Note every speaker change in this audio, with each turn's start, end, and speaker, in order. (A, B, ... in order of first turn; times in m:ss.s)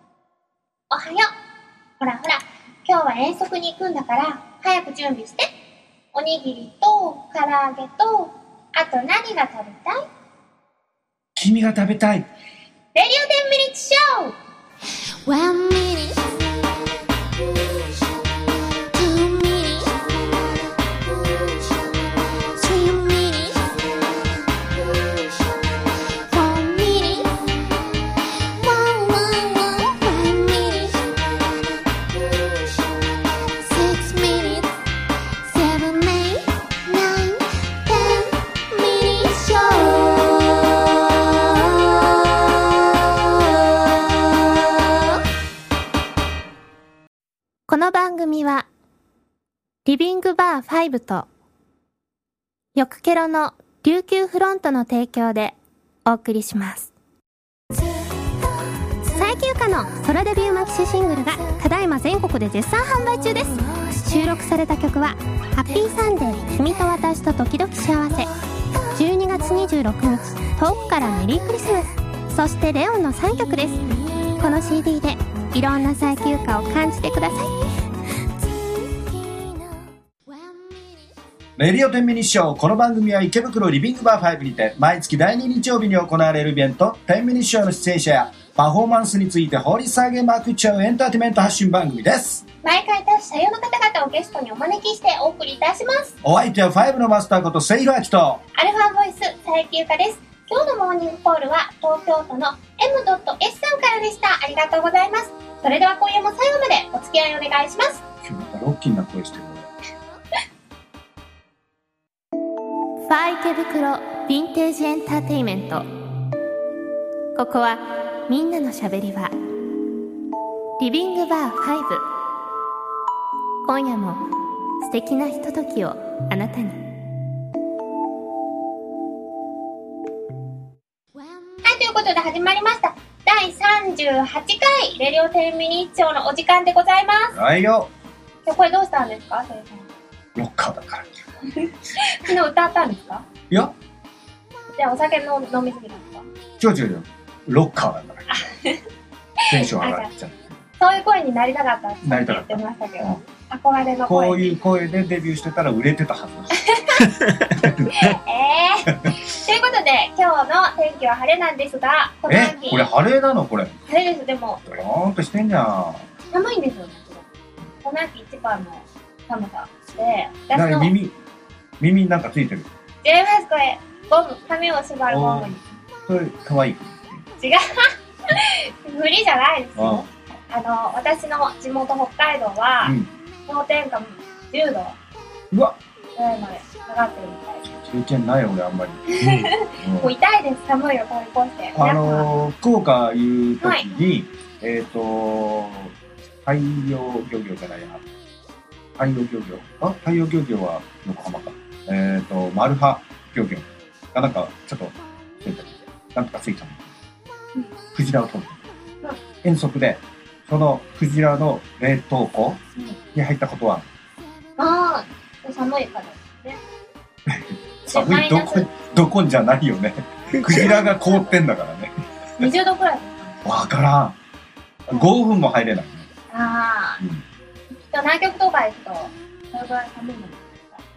0:00.9-0:01.3 A
0:02.0-0:05.5 A
0:06.1-0:10.1 A
0:11.4-0:12.3 B
0:13.0-0:14.4 A
0:15.2-0:16.5 C
0:18.9-0:20.2 C
0:21.2-0:23.8 C
0:26.3-0:27.4 C
0:28.5-0:31.1 C
0:32.5-0:33.0 C
0:33.6-0:34.7 C
0:35.5-0:40.6 C
0:41.3-0:41.6 C
0:47.7-0:48.7 D
0:49.8-0:51.3 D
0:52.8-0:56.9 D
0:59.1-1:08.3 D
1:03.6-1:04.0 C
1:09.0-1:13.8 D
1:14.4-1:17.5 D
1:18.5-1:19.5 C
1:21.6-1:32.4 B
1:32.6-1:36.2 A
1:36.2-1:38.4 B
1:38.6-1:48.0 A
1:48.2-1:49.7 B
1:53.0-1:55.9 D
1:57.4-1:59.3 D
2:00.8-2:02.0 D
2:03.6-2:04.2 D
2:04.8-2:06.9 D
2:11.6-2:17.4 A
2:17.3-2:17.9 B
2:18.5-2:19.9 A
2:20.4-2:21.2 B
2:21.6-2:23.2 A
2:24.8-2:26.3 A
2:26.6-2:28.5 B
2:28.3-2:28.8 A
2:29.4-2:30.1 A
2:29.5-2:30.6 B
2:30.8-2:34.6 A
2:32.0-2:33.2 B
2:34.1-2:36.7 B
2:36.7-2:37.0 A
2:37.5-2:38.0 B
2:37.9-2:42.9 A
2:42.3-2:43.8 B
2:43.9-2:44.7 A
2:44.7-2:46.1 B
2:46.3-2:47.3 A
2:47.8-2:50.9 A
2:50.5-2:51.2 B
2:51.8-2:52.7 B
2:53.0-2:55.6 A
2:55.1-2:55.5 B
2:56.1-2:57.2 B
2:57.4-3:03.0 A
2:59.8-3:00.1 B
3:02.8-3:03.1 B
3:03.5-3:05.0 A
3:05.5-3:05.8 B
3:06.2-3:07.6 A
3:07.7-3:10.1 B
3:09.1-3:12.3 A
3:11.8-3:15.9 B
3:13.6-3:13.9 A
3:16.4-3:18.0 B
3:19.0-3:26.9 B
3:27.9-3:28.6 B
3:29.4-3:32.6 B
3:33.1-3:33.9 B
3:34.6-3:36.6 A
3:37.3-3:42.5 B
3:37.9-3:38.7 A
3:40.4-3:41.2 A
3:42.4-3:43.7 A
3:43.4-3:44.2 B
3:44.9-3:46.1 B
3:46.3-3:47.0 A
3:47.7-3:50.8 A